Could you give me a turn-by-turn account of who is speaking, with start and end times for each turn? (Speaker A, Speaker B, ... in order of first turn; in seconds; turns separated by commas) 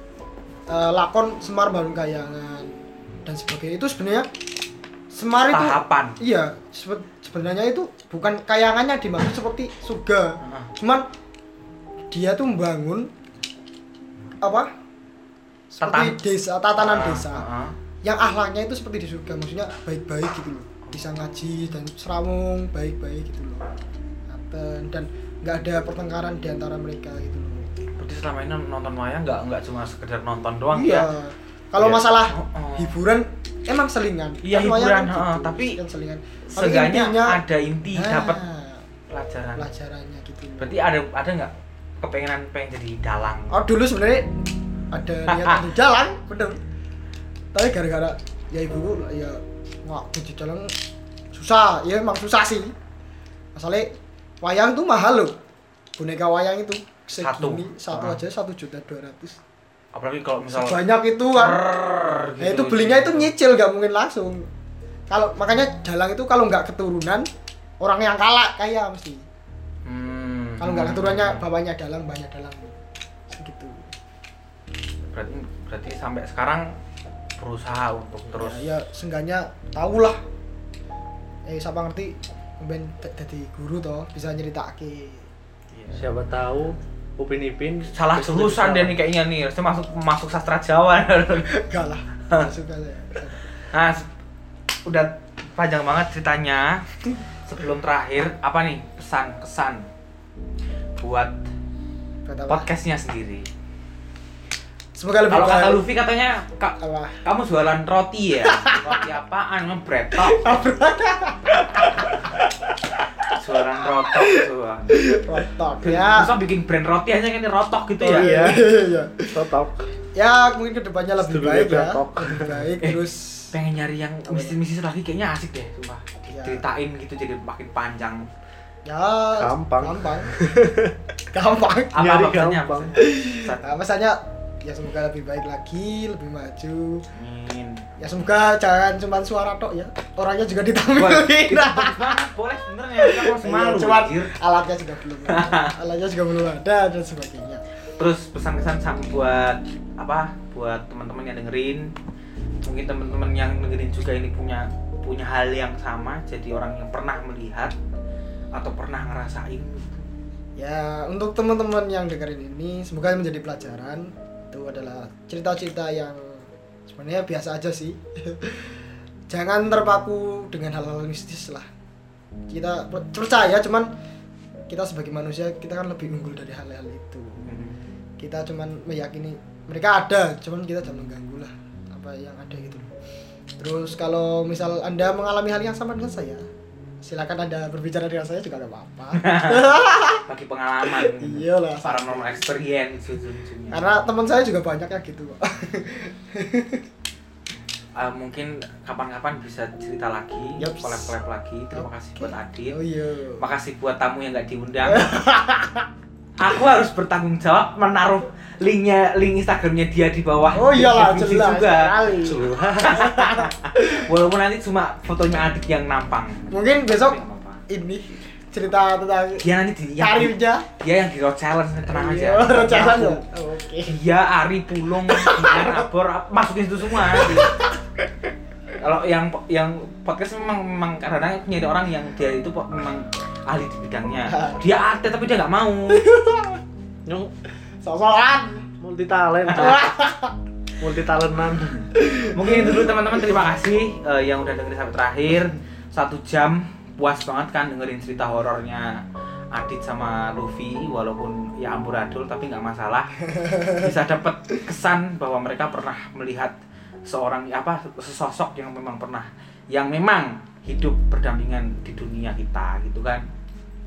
Speaker A: 0.7-4.3, Speaker A: 5.1-11.0, Speaker B: 5.5-6.2, Speaker B: 10.4-10.7, Speaker A: 12.1-13.1, Speaker A: 14.4-14.7, Speaker A: 15.7-17.5, Speaker B: 15.8-16.2, Speaker B: 16.8-17.8, Speaker A: 18.0-23.7, Speaker B: 20.9-21.2, Speaker A: 24.3-27.7, Speaker B: 28.0-31.1, Speaker A: 30.7-37.4, Speaker B: 32.3-32.9, Speaker B: 34.4-35.8, Speaker B: 36.5-38.4, Speaker A: 37.9-38.8, Speaker B: 39.1-39.6, Speaker A: 39.5-40.8, Speaker B: 40.6-43.5, Speaker A: 43.5-44.4, Speaker A: 44.9-46.6, Speaker B: 45.3-45.6, Speaker A: 47.5-50.7, Speaker A: 51.3-52.7, Speaker A: 53.5-53.9, Speaker A: 54.4-55.3, Speaker A: 56.0-59.4, Speaker B: 57.1-58.2, Speaker B: 59.9-60.8, Speaker A: 60.5-61.6, Speaker B: 61.3-63.3, Speaker A: 62.4-64.5, Speaker A: 65.1-67.3, Speaker A: 67.8-69.2, Speaker B: 69.8-71.4, Speaker A: 70.6-72.7, Speaker A: 73.3-73.9, Speaker B: 75.1-76.7, Speaker B: 77.4-78.7, Speaker A: 78.3-80.2, Speaker A: 81.5-85.3, Speaker B: 85.7-86.0, Speaker C: 85.9-89.0, Speaker B: 87.9-91.5, Speaker A: 91.5-93.5, Speaker B: 93.6-94.1, Speaker B: 94.8-99.9, Speaker B: 101.0-101.4, Speaker A: 102.3-102.7, Speaker B: 102.5-103.5, Speaker A: 105.0-105.8, Speaker B: 105.3-110.5, Speaker A: 106.8-107.2, Speaker A: 108.4-109.1, Speaker A: 110.1-112.5, Speaker A: 113.2-116.3, Speaker B: 113.3-114.9, Speaker B: 115.8-118.3, Speaker A: 118.0-119.5, Speaker C: 118.1-118.6, Speaker C: 119.3-119.8, Speaker A: 120.1-123.5, Speaker C: 121.2-122.7, Speaker B: 122.8-128.3, Speaker A: 124.3-124.6, Speaker A: 126.3-126.6, Speaker A: 128.9-130.4, Speaker C: 129.4-130.9, Speaker A: 131.3-132.1, Speaker B: 131.9-133.6, Speaker C: 132.0-132.9, Speaker A: 132.9-137.0, Speaker B: 137.1-137.9, Speaker A: 138.0-142.2, Speaker B: 140.9-144.3, Speaker A: 143.0-147.6, Speaker B: 145.3-145.8, Speaker B: 148.0-151.9, Speaker B: 152.6-157.7, Speaker B: 158.5-160.1, Speaker A: 160.6-168.8, Speaker A: 169.3-171.7, Speaker A: 172.5-173.9, Speaker A: 174.7-177.4, Speaker B: 177.4-177.8, Speaker A: 178.2-182.9, Speaker A: 183.6-186.4, Speaker A: 187.0-190.3, Speaker B: 189.2-193.9, Speaker A: 190.9-192.4, Speaker A: 193.7-196.8, Speaker B: 197.9-202.8, Speaker A: 200.6-201.2, Speaker A: 201.7-203.5, Speaker B: 203.4-205.1, Speaker A: 204.8-205.9, Speaker B: 206.4-212.1, Speaker A: 210.5-214.1, Speaker C: 212.2-213.0, Speaker B: 212.8-217.6, Speaker A: 216.5-220.7, Speaker B: 219.4-223.3, Speaker A: 221.9-224.0, Speaker B: 223.8-227.6, Speaker A: 225.0-225.8, Speaker A: 226.9-227.8, Speaker B: 228.7-236.0, Speaker A: 234.3-234.6, Speaker A: 235.9-236.6, Speaker C: 237.1-237.3, Speaker A: 237.8-238.7, Speaker C: 238.8-239.9, Speaker B: 239.5-239.8, Speaker A: 239.5-240.4, Speaker C: 240.8-241.9, Speaker A: 241.9-242.9, Speaker B: 242.3-249.0, Speaker B: 249.5-256.5, Speaker A: 253.3-253.9, Speaker B: 257.1-263.3